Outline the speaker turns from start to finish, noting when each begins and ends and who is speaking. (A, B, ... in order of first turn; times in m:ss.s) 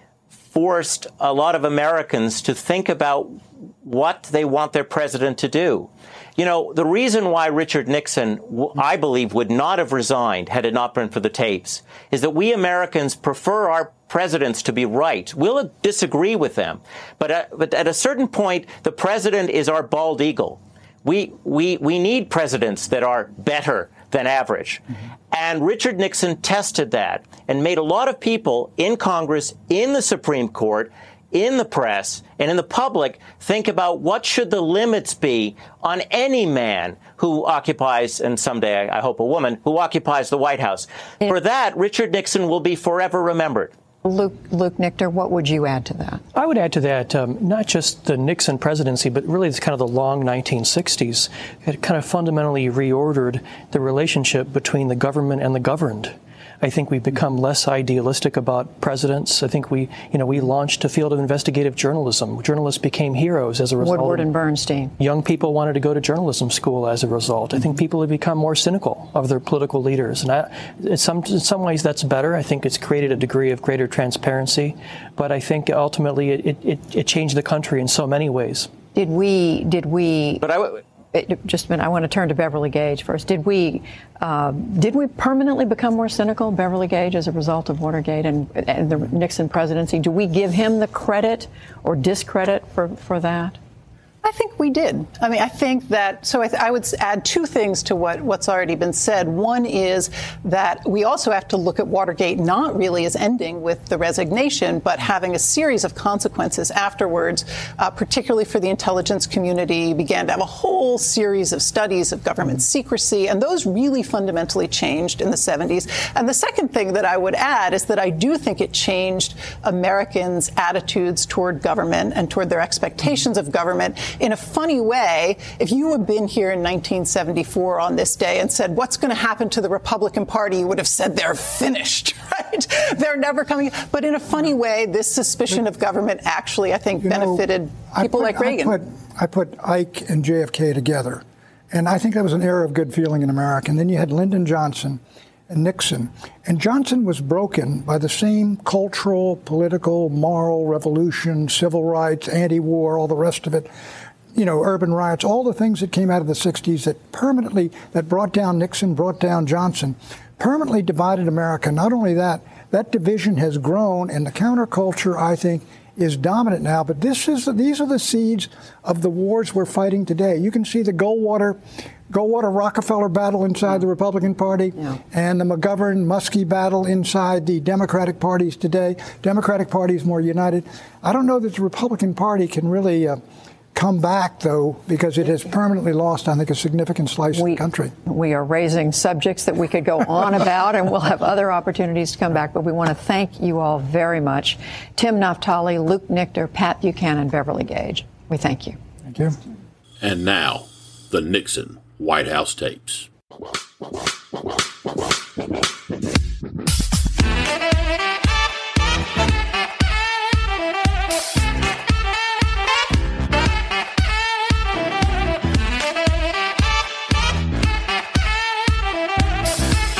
0:00.5-0:43.7 A
0:44.0-0:46.2 B
0:46.4-1:04.3 C
1:03.8-1:04.9 B
1:05.0-1:18.7 C
1:19.0-1:20.4 B
1:20.4-1:20.8 A
1:21.1-1:33.6 B
1:34.2-2:18.8 D
2:17.0-2:33.7 E
2:34.4-3:03.2 E
3:03.8-3:07.9 E
3:07.3-3:18.8 B
3:19.1-3:19.4 E
3:20.0-3:23.1 F